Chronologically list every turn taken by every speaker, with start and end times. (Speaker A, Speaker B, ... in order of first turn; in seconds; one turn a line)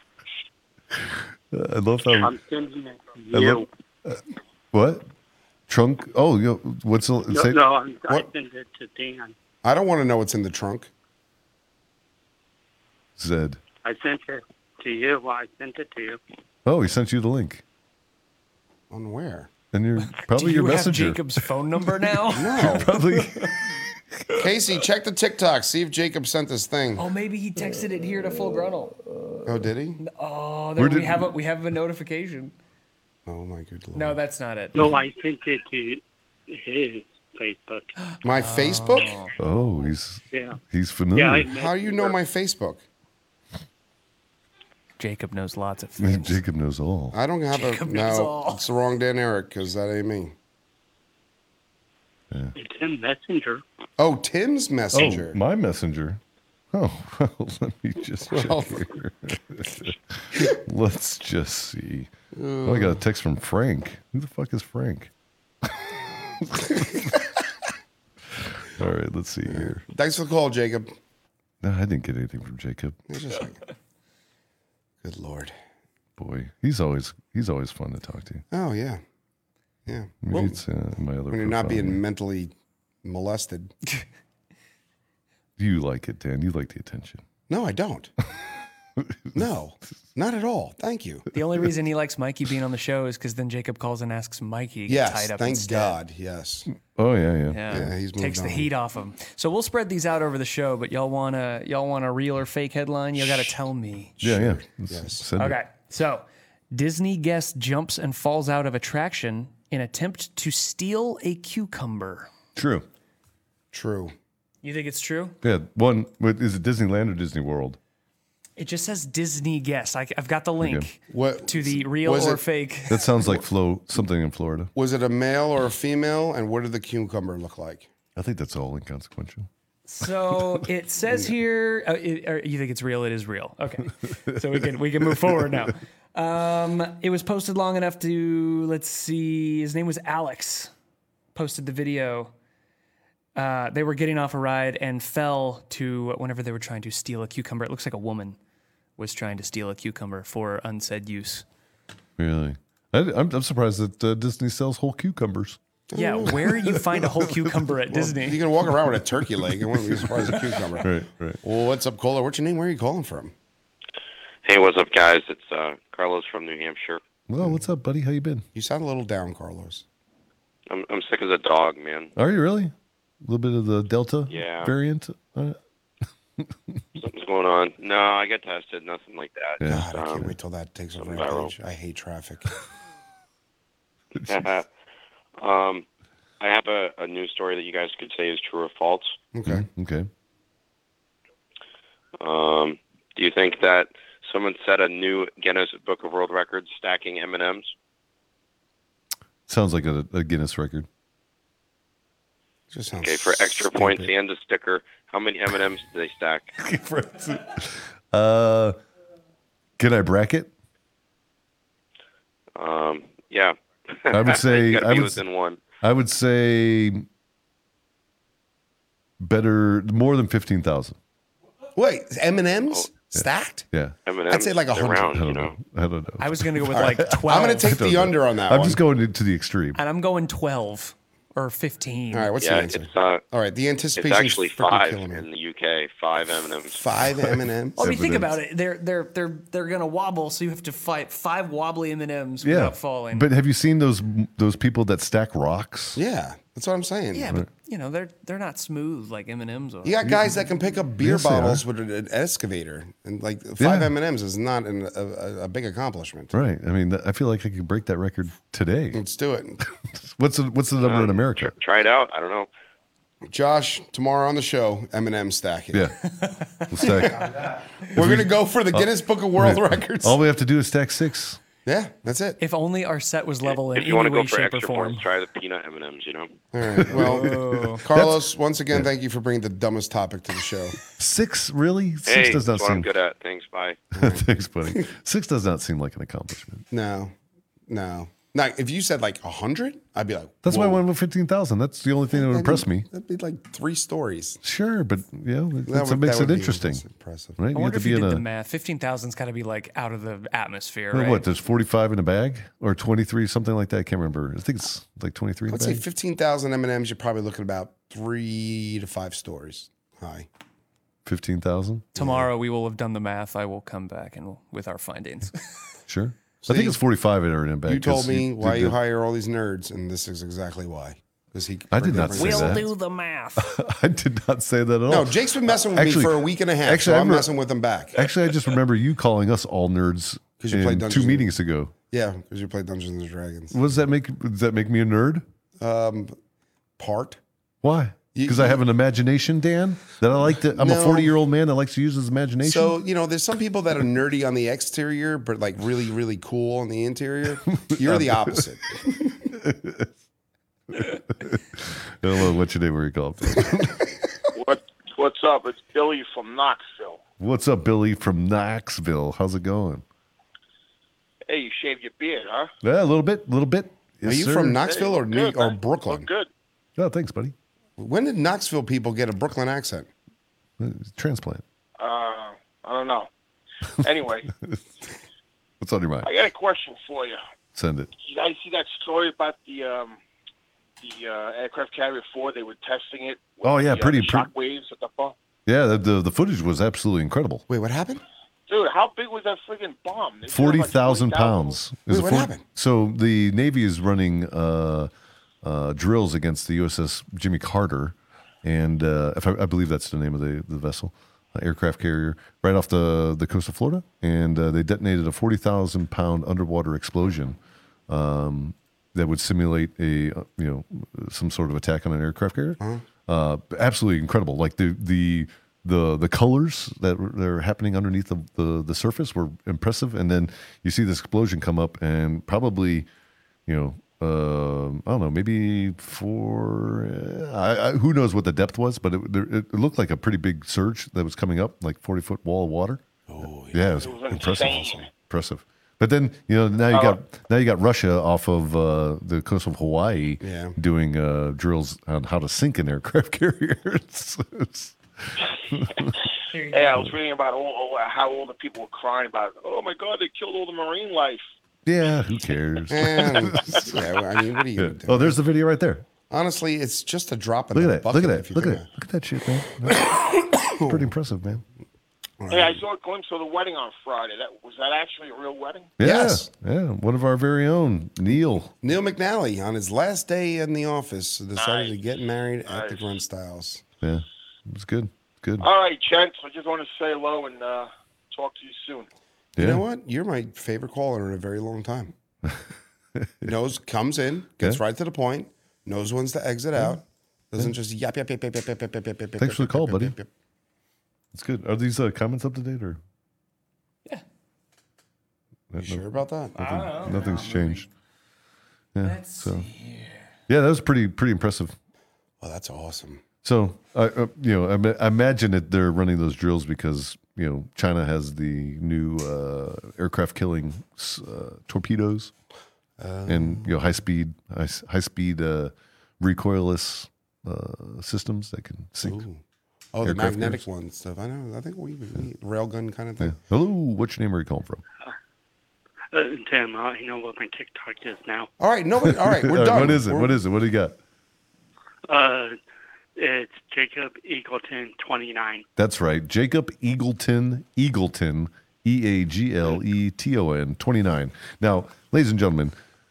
Speaker A: 1.0-2.3
Speaker B: 2.2-3.7
Speaker A: 3.3-4.2
Speaker A: 4.7-5.1
Speaker A: 5.7-7.6
Speaker B: 7.3-9.3
Speaker C: 9.6-10.9
Speaker A: 13.2-13.6
Speaker B: 13.8-16.2
Speaker A: 16.7-17.6
Speaker C: 18.9-19.5
Speaker A: 19.7-24.4
Speaker D: 20.1-23.5
Speaker C: 22.3-22.9
Speaker C: 24.4-27.1
Speaker D: 27.0-29.0
Speaker A: 27.7-29.7
Speaker C: 29.4-30.0
Speaker D: 30.0-32.5
Speaker A: 30.8-31.3
Speaker C: 33.3-34.2
Speaker D: 33.9-34.9
Speaker B: 34.8-37.9
Speaker D: 38.0-39.3
Speaker C: 38.2-39.1
Speaker A: 39.4-41.5
Speaker B: 40.3-40.6
Speaker B: 41.1-42.2
Speaker C: 41.5-42.8
Speaker D: 45.0-46.4
Speaker A: 46.0-47.2
Speaker C: 47.1-50.3
Speaker D: 47.5-48.6
Speaker B: 52.5-53.6
Speaker C: 54.0-55.4
Speaker A: 54.9-56.2
Speaker A: 56.7-62.1
Speaker C: 58.3-58.9
Speaker C: 62.3-63.0
Speaker A: 62.6-65.1
Speaker A: 65.6-67.1
Speaker A: 68.3-69.8
Speaker C: 69.5-71.0
Speaker A: 71.6-73.0
Speaker C: 73.1-73.6
Speaker C: 75.0-75.5
Speaker A: 76.2-78.4
Speaker C: 78.5-79.0
Speaker C: 79.9-80.6
Speaker A: 80.2-82.0
Speaker C: 81.3-82.5
Speaker C: 83.0-83.7
Speaker A: 85.6-87.2
Speaker C: 87.5-88.1
Speaker A: 89.0-89.4
Speaker C: 89.3-91.3
Speaker D: 91.3-96.0
Speaker C: 94.9-96.7
Speaker A: 96.8-97.9
Speaker D: 97.5-104.2
Speaker C: 97.7-98.7
Speaker C: 104.2-105.3
Speaker A: 104.2-105.6
Speaker D: 105.4-112.3
Speaker A: 112.6-112.9
Speaker C: 113.7-114.1
Speaker D: 114.6-115.4
Speaker A: 115.4-117.8
Speaker D: 118.6-123.2
Speaker A: 120.6-120.9
Speaker C: 121.1-122.4
Speaker A: 122.9-124.7
Speaker C: 124.8-127.9
Speaker A: 128.2-129.5
Speaker D: 129.9-140.7
Speaker D: 141.3-142.3
Speaker D: 143.4-148.4
Speaker D: 149.0-151.4
Speaker A: 152.2-155.6
Speaker C: 155.9-156.4
Speaker D: 155.9-158.4
Speaker A: 156.3-157.6
Speaker C: 157.9-163.3
Speaker A: 159.9-161.4
Speaker E: 164.4-167.0
Speaker A: 167.3-168.4
Speaker C: 168.6-169.8
Speaker E: 170.7-172.1
Speaker A: 172.2-175.6
Speaker E: 174.3-174.7
Speaker A: 176.4-176.8
Speaker E: 177.0-180.3
Speaker A: 179.6-180.3
Speaker C: 179.7-182.5
Speaker E: 181.0-181.5
Speaker E: 184.3-184.7
Speaker E: 185.4-185.9
Speaker E: 186.4-189.2
Speaker C: 189.3-189.7
Speaker A: 189.5-190.1
Speaker E: 192.2-197.7
Speaker A: 199.5-200.9
Speaker C: 202.7-204.1
Speaker E: 203.0-206.5
Speaker A: 206.6-208.8
Speaker A: 209.8-210.5
Speaker E: 212.6-215.6
Speaker A: 214.1-215.2
Speaker A: 215.8-217.1
Speaker A: 219.2-221.0
Speaker C: 221.8-223.7
Speaker A: 223.2-223.9
Speaker E: 224.1-225.6
Speaker C: 224.3-225.2
Speaker A: 225.1-229.8
Speaker D: 226.2-227.7
Speaker C: 226.7-228.8
Speaker D: 229.8-232.3
Speaker C: 232.1-235.3
Speaker E: 232.4-233.2
Speaker E: 234.0-236.8
Speaker C: 236.8-237.8
Speaker D: 237.8-243.3
Speaker A: 237.8-238.4
Speaker A: 242.4-246.0
Speaker C: 245.9-247.3
Speaker D: 247.1-250.1
Speaker C: 249.8-256.4
Speaker A: 250.0-250.3
Speaker A: 251.0-251.6
Speaker A: 253.6-253.9
Speaker A: 256.3-259.0
Speaker C: 258.9-259.6
Speaker A: 259.7-261.6
Speaker E: 260.8-262.5
Speaker C: 263.3-265.9
Speaker D: 266.1-266.9
Speaker A: 266.6-267.4
Speaker C: 266.8-270.2
Speaker A: 267.9-271.4
Speaker C: 271.6-272.4
Speaker D: 272.4-275.1
Speaker E: 273.4-276.4
Speaker C: 276.5-280.8
Speaker A: 276.8-278.9
Speaker D: 276.9-277.8
Speaker A: 281.0-282.9
Speaker E: 282.1-283.8
Speaker C: 283.9-284.9
Speaker A: 284.0-286.7
Speaker C: 286.7-287.1
Speaker C: 287.7-290.8
Speaker A: 290.4-292.9
Speaker C: 292.1-294.4
Speaker A: 294.4-296.8
Speaker C: 295.7-297.4
Speaker A: 297.4-298.2
Speaker D: 297.5-301.2
Speaker A: 300.9-305.8
Speaker C: 305.5-310.3
Speaker A: 311.1-311.9
Speaker C: 311.9-312.3
Speaker D: 312.0-315.4
Speaker A: 315.9-318.8
Speaker C: 316.4-316.8
Speaker C: 317.7-322.6
Speaker A: 321.7-322.7
Speaker D: 322.1-323.5
Speaker A: 323.4-327.3
Speaker C: 324.9-328.0
Speaker A: 327.9-331.7
Speaker C: 330.4-331.3
Speaker C: 331.9-333.6
Speaker A: 333.5-335.2
Speaker C: 335.6-336.1
Speaker C: 336.8-337.2
Speaker A: 337.6-342.8
Speaker C: 338.1-338.6
Speaker C: 340.4-341.2
Speaker C: 342.4-349.3
Speaker A: 347.6-348.4
Speaker A: 349.3-349.9
Speaker A: 350.7-353.9
Speaker F: 354.4-357.0
Speaker A: 357.2-359.8
Speaker F: 361.3-362.5
Speaker A: 362.6-364.6
Speaker C: 364.1-366.1
Speaker F: 364.6-366.3
Speaker A: 366.8-367.4
Speaker C: 367.8-369.9
Speaker A: 370.6-371.4
Speaker F: 371.8-373.1
Speaker F: 373.7-374.3
Speaker A: 375.6-376.1
Speaker F: 376.0-377.2
Speaker A: 377.6-377.9
Speaker F: 378.0-380.0
Speaker F: 380.8-385.1
Speaker A: 383.4-384.3
Speaker A: 385.5-387.4
Speaker C: 387.5-388.0
Speaker F: 388.5-391.6
Speaker A: 390.3-394.9
Speaker C: 391.9-392.4
Speaker A: 395.4-407.4
Speaker A: 407.9-422.9
Speaker A: 423.5-432.8
Speaker C: 433.1-434.9
Speaker A: 433.5-446.0
Speaker F: 433.7-434.9
Speaker F: 436.7-437.0
Speaker C: 440.2-440.6
Speaker D: 446.3-446.9
Speaker F: 446.5-451.2
Speaker A: 451.7-453.9
Speaker C: 452.7-455.2
Speaker A: 454.6-455.9
Speaker C: 456.1-458.7
Speaker A: 457.5-461.4
Speaker C: 459.7-460.9
Speaker C: 462.2-462.6
Speaker F: 462.3-465.7
Speaker A: 465.8-468.5
Speaker C: 465.8-466.3
Speaker C: 468.6-473.6
Speaker F: 471.4-471.8
Speaker F: 472.5-472.9
Speaker A: 473.8-475.5
Speaker F: 475.4-478.9
Speaker A: 479.4-479.6
Speaker C: 479.4-481.9
Speaker A: 482.2-483.3
Speaker C: 483.2-490.1
Speaker A: 489.2-489.9
Speaker A: 491.1-492.8
Speaker A: 495.5-495.8
Speaker C: 495.6-496.5
Speaker D: 496.4-497.7
Speaker A: 496.4-497.7
Speaker A: 498.7-499.5
Speaker D: 498.8-500.1
Speaker A: 500.3-501.6
Speaker C: 502.2-503.0
Speaker A: 503.2-512.1
Speaker C: 512.8-513.5
Speaker A: 513.1-519.0
Speaker C: 518.8-519.2
Speaker C: 519.7-523.2
Speaker A: 519.8-520.4
Speaker A: 523.0-524.6
Speaker B: 525.9-528.3
Speaker C: 528.4-530.2
Speaker A: 528.8-530.8
Speaker B: 531.9-532.4
Speaker B: 533.0-535.5
Speaker A: 535.6-542.5